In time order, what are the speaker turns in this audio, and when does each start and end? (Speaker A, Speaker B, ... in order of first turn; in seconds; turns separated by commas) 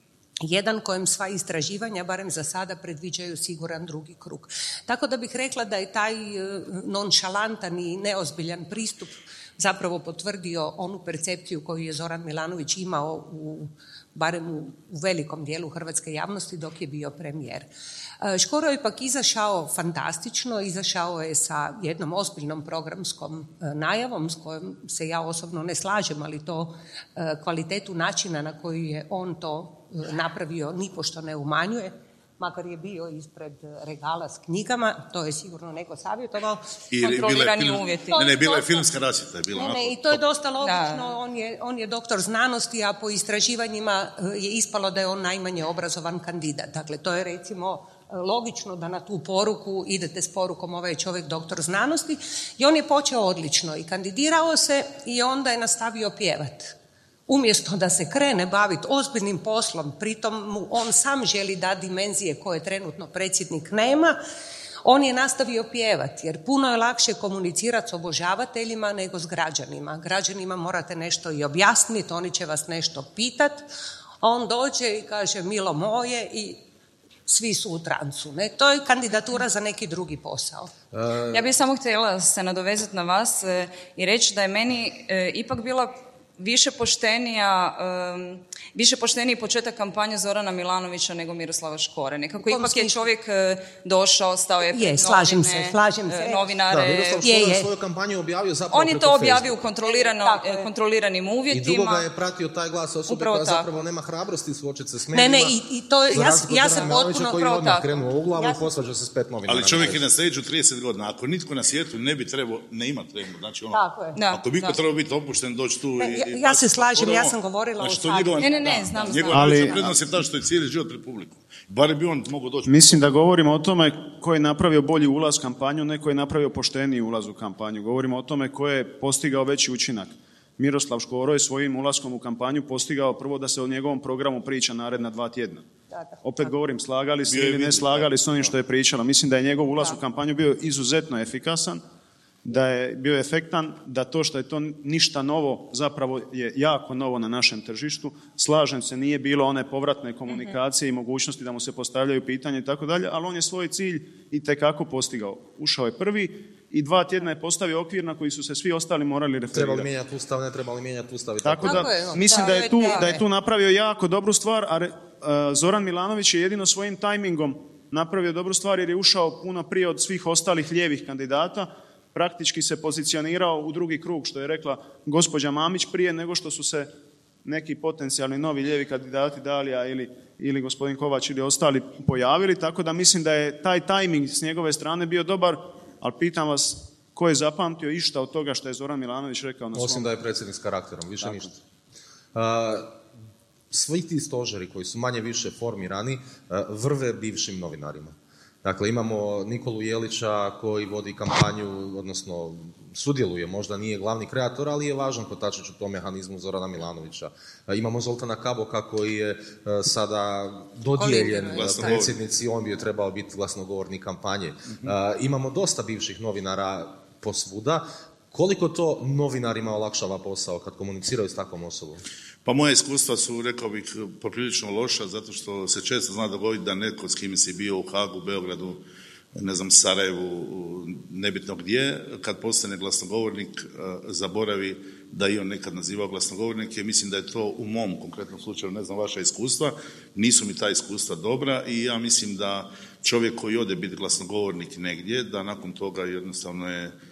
Speaker A: 0.4-17.7, Speaker A: 18.2-36.7, Speaker B: 36.9-40.2, Speaker C: 37.0-38.2, Speaker A: 38.1-38.9, Speaker A: 39.5-56.7, Speaker C: 40.6-41.1, Speaker A: 57.3-64.2, Speaker A: 64.8-73.7, Speaker A: 74.2-76.6, Speaker A: 77.3-80.7, Speaker D: 80.9-81.5, Speaker C: 81.3-97.2, Speaker A: 92.4-93.1, Speaker A: 94.7-96.4, Speaker D: 96.7-99.6, Speaker A: 97.2-97.7, Speaker C: 98.7-102.0, Speaker A: 99.8-100.7, Speaker D: 101.5-105.6, Speaker C: 103.1-103.7, Speaker A: 105.1-107.7, Speaker D: 106.1-110.0, Speaker C: 106.8-107.9, Speaker A: 108.4-108.6, Speaker B: 109.5-113.8, Speaker A: 113.7-114.2, Speaker C: 114.2-114.8, Speaker B: 114.3-123.1, Speaker A: 116.0-119.2, Speaker C: 118.4-119.8, Speaker E: 119.3-119.8, Speaker E: 122.7-135.7, Speaker A: 135.9-136.5, Speaker E: 136.2-141.8, Speaker B: 137.2-138.5, Speaker E: 142.4-159.9, Speaker D: 159.5-161.9, Speaker E: 161.4-176.9, Speaker A: 161.6-163.2, Speaker E: 177.4-190.1, Speaker D: 189.7-191.5, Speaker E: 191.2-191.6, Speaker D: 192.3-192.9, Speaker D: 193.7-222.0, Speaker A: 211.0-212.0, Speaker B: 211.5-212.2, Speaker B: 222.4-228.8, Speaker B: 229.3-246.9